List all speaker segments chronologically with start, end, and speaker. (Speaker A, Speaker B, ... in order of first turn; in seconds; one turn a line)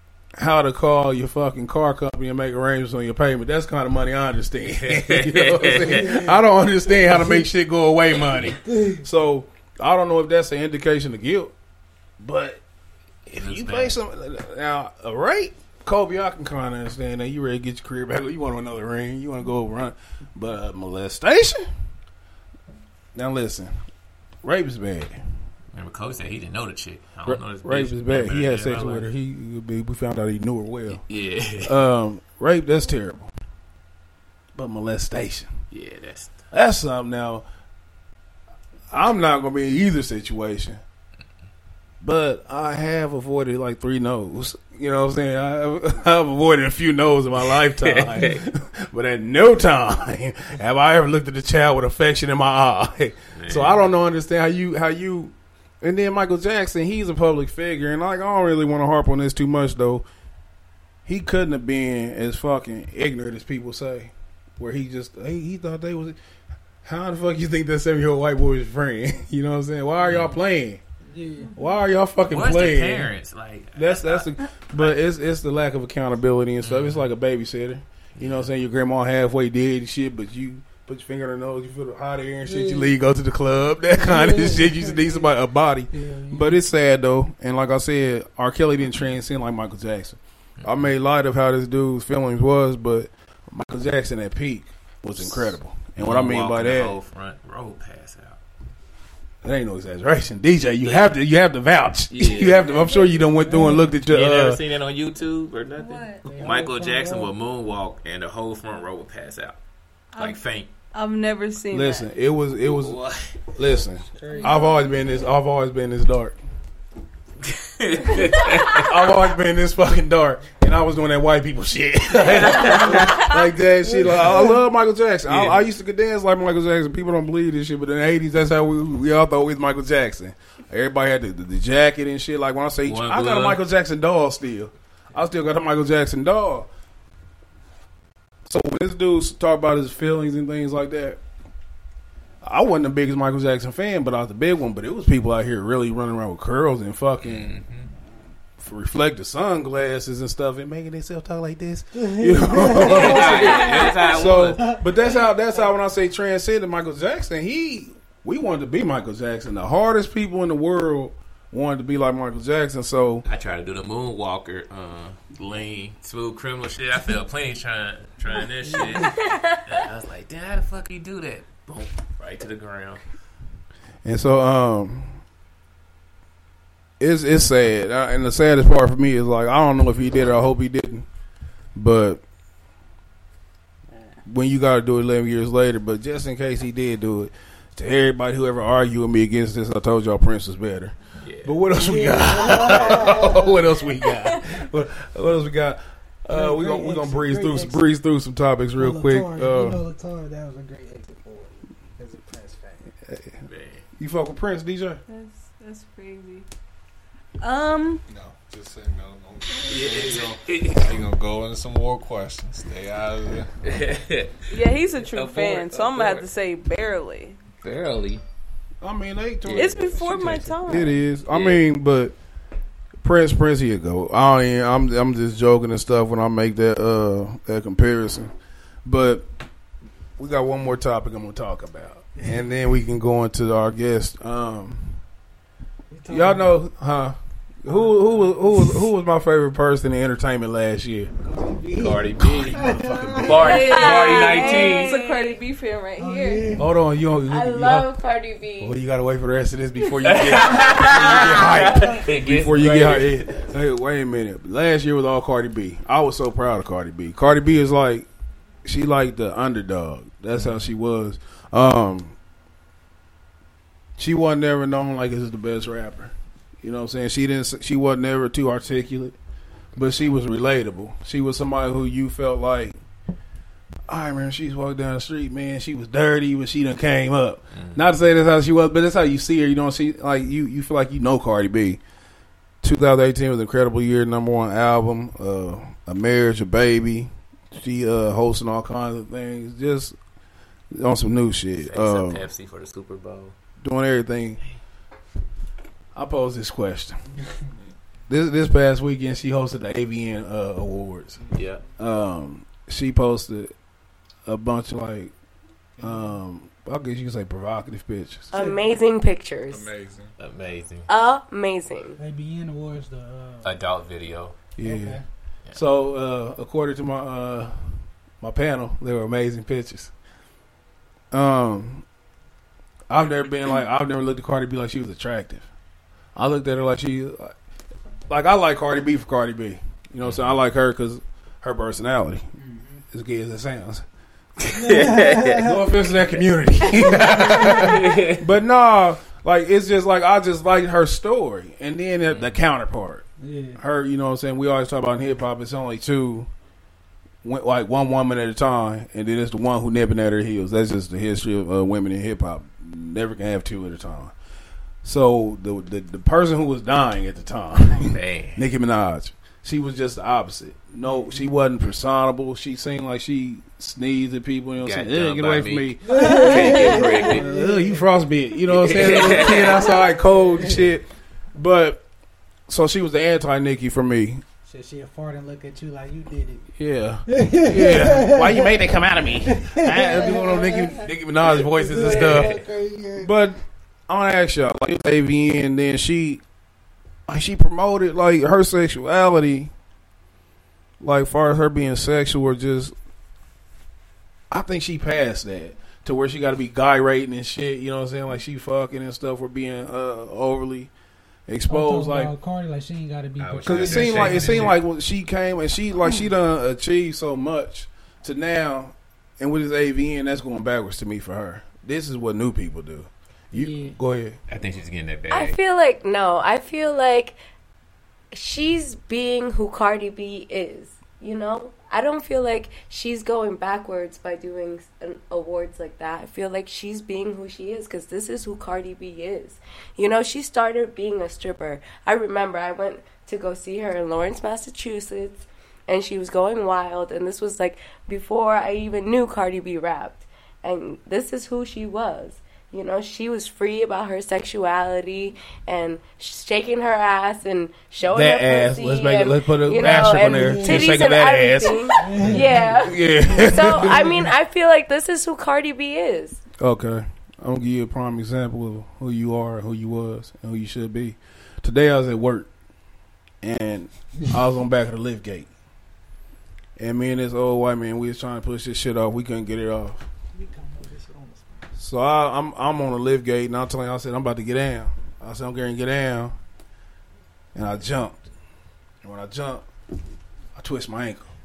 Speaker A: 0.4-11.5
Speaker B: 4.7-6.2
Speaker C: 5.8-6.4
Speaker C: 7.0-7.4
Speaker C: 8.4-9.1
Speaker A: 12.2-12.6
Speaker A: 13.3-21.7
Speaker B: 13.4-14.0
Speaker A: 23.1-23.8
Speaker A: 24.4-25.2
Speaker B: 25.7-29.1
Speaker A: 27.2-31.0
Speaker B: 31.1-31.8
Speaker A: 31.6-33.3
Speaker A: 34.5-35.5
Speaker B: 35.7-36.4
Speaker A: 36.5-37.4
Speaker A: 38.9-40.8
Speaker A: 42.0-60.1
Speaker B: 47.8-48.4
Speaker B: 53.3-53.9
Speaker A: 61.1-66.2
Speaker A: 66.8-70.8
Speaker B: 70.0-70.4
Speaker C: 71.1-71.8
Speaker A: 71.6-73.1
Speaker B: 72.3-74.9
Speaker A: 73.8-97.0
Speaker B: 76.6-77.1
Speaker B: 78.2-78.5
Speaker C: 82.4-83.0
Speaker C: 83.9-85.3
Speaker C: 85.9-86.6
Speaker B: 95.2-98.4
Speaker A: 99.4-104.6
Speaker B: 100.8-101.2
Speaker B: 102.1-103.1
Speaker C: 103.2-104.0
Speaker B: 103.8-109.6
Speaker D: 105.8-106.3
Speaker C: 106.2-107.4
Speaker D: 110.2-110.4
Speaker B: 110.2-110.7
Speaker D: 110.9-112.1
Speaker A: 111.7-113.0
Speaker B: 112.7-113.4
Speaker A: 113.5-116.4
Speaker C: 114.2-114.9
Speaker D: 114.3-114.7
Speaker B: 117.5-119.0
Speaker A: 118.7-136.7
Speaker B: 122.2-123.3
Speaker C: 123.8-124.6
Speaker B: 125.3-125.6
Speaker B: 132.9-133.6
Speaker A: 138.4-141.2
Speaker A: 142.4-147.6
Speaker B: 147.2-147.9
Speaker A: 148.6-163.2
Speaker C: 151.9-154.9
Speaker B: 152.8-154.7
Speaker B: 163.3-173.0
Speaker C: 168.4-169.1
Speaker E: 169.2-169.6
Speaker A: 174.0-175.2
Speaker A: 177.0-181.1
Speaker A: 181.8-182.2
Speaker A: 184.3-199.8
Speaker B: 191.2-191.6
Speaker C: 191.7-193.8
Speaker C: 196.3-197.8
Speaker C: 198.8-202.9
Speaker A: 203.1-203.3
Speaker B: 203.4-203.8
Speaker A: 204.0-205.0
Speaker D: 205.1-206.5
Speaker D: 207.4-208.0
Speaker F: 208.1-213.5
Speaker B: 209.7-211.0
Speaker B: 213.6-216.3
Speaker D: 214.5-217.4
Speaker B: 217.6-218.2
Speaker A: 218.8-222.1
Speaker B: 219.5-220.6
Speaker D: 219.5-221.0
Speaker B: 221.3-221.6
Speaker A: 223.0-228.3
Speaker A: 228.8-229.3
Speaker A: 230.2-235.0
Speaker C: 235.9-236.6
Speaker A: 236.1-241.1
Speaker C: 237.7-238.8
Speaker C: 241.2-243.7
Speaker B: 241.8-245.0
Speaker D: 243.3-246.6
Speaker E: 243.3-245.4
Speaker C: 246.0-246.7
Speaker A: 246.6-247.9
Speaker E: 247.3-248.8
Speaker A: 248.6-258.1
Speaker B: 250.0-253.5
Speaker C: 251.7-252.0
Speaker A: 258.6-262.2
Speaker B: 260.4-260.7
Speaker A: 264.0-269.2
Speaker A: 269.8-272.8
Speaker A: 273.9-281.8
Speaker B: 277.5-277.8
Speaker A: 282.6-290.0
Speaker A: 290.7-292.2
Speaker B: 291.6-293.4
Speaker A: 293.6-294.4
Speaker A: 295.9-297.0
Speaker A: 298.1-301.2
Speaker B: 301.3-301.6
Speaker A: 301.8-303.5
Speaker A: 304.3-305.1
Speaker A: 305.8-308.3
Speaker C: 308.3-308.6
Speaker E: 308.3-309.7
Speaker F: 309.5-310.1
Speaker B: 310.2-310.9
Speaker E: 310.9-312.0
Speaker C: 312.0-313.5
Speaker B: 313.4-314.4
Speaker A: 314.6-315.0
Speaker C: 314.6-315.0
Speaker A: 315.5-319.9
Speaker A: 321.1-321.9
Speaker A: 322.9-325.5
Speaker A: 326.1-327.3
Speaker A: 328.1-332.2
Speaker B: 330.0-330.3
Speaker C: 332.4-332.8
Speaker A: 332.9-333.8
Speaker B: 334.4-335.5
Speaker C: 334.6-335.6
Speaker A: 335.4-346.3
Speaker B: 336.7-338.3
Speaker C: 336.8-337.8
Speaker B: 342.1-342.4
Speaker C: 343.2-343.6
Speaker A: 347.2-354.1
Speaker A: 354.8-365.8
Speaker B: 357.8-358.4
Speaker C: 360.9-361.3
Speaker B: 364.6-367.3
Speaker C: 365.8-367.9
Speaker D: 365.9-367.0
Speaker A: 366.6-371.8
Speaker B: 368.5-369.7
Speaker C: 368.6-370.6
Speaker A: 372.5-374.2
Speaker C: 374.4-376.5
Speaker A: 376.6-386.2
Speaker C: 377.1-378.5
Speaker C: 379.2-383.1
Speaker A: 387.1-389.5
Speaker A: 390.8-392.8
Speaker A: 394.3-400.7
Speaker A: 401.3-402.1
Speaker C: 401.5-404.6
Speaker B: 403.2-404.6
Speaker A: 403.4-414.2
Speaker C: 413.3-413.8
Speaker B: 414.3-415.4
Speaker E: 415.1-417.2
Speaker E: 418.1-456.2
Speaker A: 447.9-454.1
Speaker C: 449.6-450.9
Speaker C: 451.8-454.1
Speaker A: 456.4-462.3
Speaker A: 463.2-465.3
Speaker A: 466.6-469.9
Speaker C: 470.1-471.5
Speaker A: 471.6-476.1
Speaker A: 477.4-478.0
Speaker A: 478.8-479.5
Speaker A: 480.4-481.1